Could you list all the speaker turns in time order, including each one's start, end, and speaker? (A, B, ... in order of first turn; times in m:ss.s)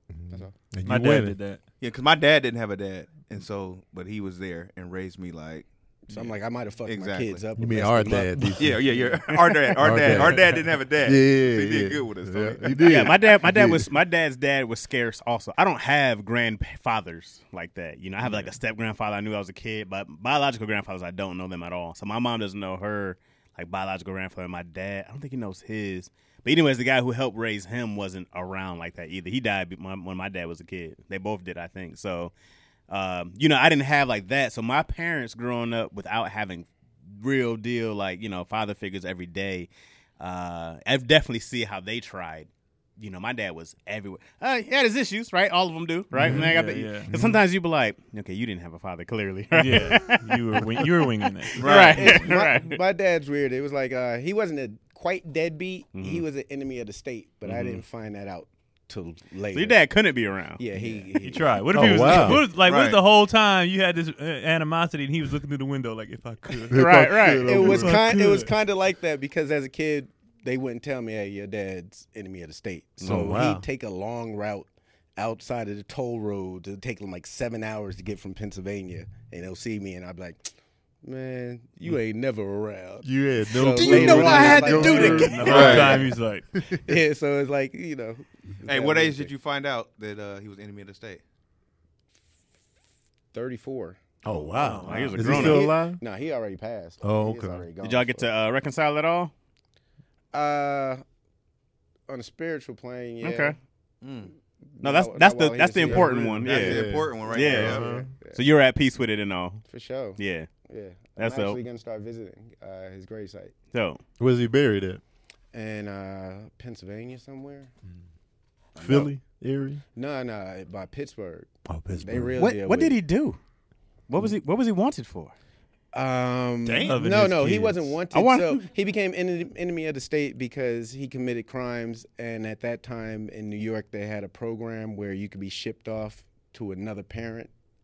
0:00.1-0:01.4 A
0:00.8-0:01.6 B
0:01.8-0:05.6 C
0:06.1-0:09.1 D
0:06.8-0:07.4 C
0:07.6-0:08.8 A
0:08.6-0:13.2 C
0:09.7-0:13.9 A
0:12.8-0:32.3 E
0:32.9-0:50.9 E
0:46.1-0:47.1 B
0:46.2-0:46.5 A
0:47.1-0:47.4 A
0:49.5-0:51.9 B
0:49.9-0:50.2 A
0:51.5-0:52.8 E
0:51.6-0:52.3 C
0:51.8-0:59.8 D
0:55.9-0:56.2 E
0:57.4-0:57.8 E
0:59.5-1:01.1 E
1:00.6-1:02.4 D
1:01.2-1:08.5 B
1:01.7-1:02.4 A
1:02.6-1:03.0 C
1:06.7-1:08.0 A
1:06.7-1:07.8 E
1:07.4-1:20.5 D
1:13.0-1:13.4 E
1:13.1-1:13.6 A
1:21.0-1:26.1 D
1:23.0-1:26.8 A
1:23.6-1:25.8 E
1:24.4-1:26.4 B
1:25.4-1:26.0 C
1:26.8-1:29.3 D
1:28.6-1:31.2 C
1:33.3-1:34.0 D
1:34.2-1:36.0 A
1:34.6-1:35.3 B
1:34.6-1:35.7 E
1:35.2-1:38.3 D
1:37.0-1:37.6 A
1:37.8-1:39.3 E
1:40.3-1:41.0 D
1:42.1-1:43.6 D
1:43.2-1:43.6 E
1:44.0-1:44.3 C
1:44.8-1:46.3 D
1:44.8-1:49.6 E
1:45.8-1:48.1 A
1:46.4-1:47.9 C
1:47.5-1:48.4 D
1:49.7-1:53.5 D
1:50.2-1:50.5 E
1:51.2-1:51.6 E
1:53.7-1:54.0 E
1:54.2-1:55.0 A
1:55.5-1:57.7 D
1:58.8-1:59.1 D
1:58.8-1:59.8 A
1:59.9-2:03.0 D
2:01.7-2:02.4 A
2:02.4-2:03.4 E
2:04.1-2:05.3 E
2:05.9-2:17.5 D
2:06.7-2:06.9 C
2:06.7-2:08.0 B
2:08.1-2:08.6 E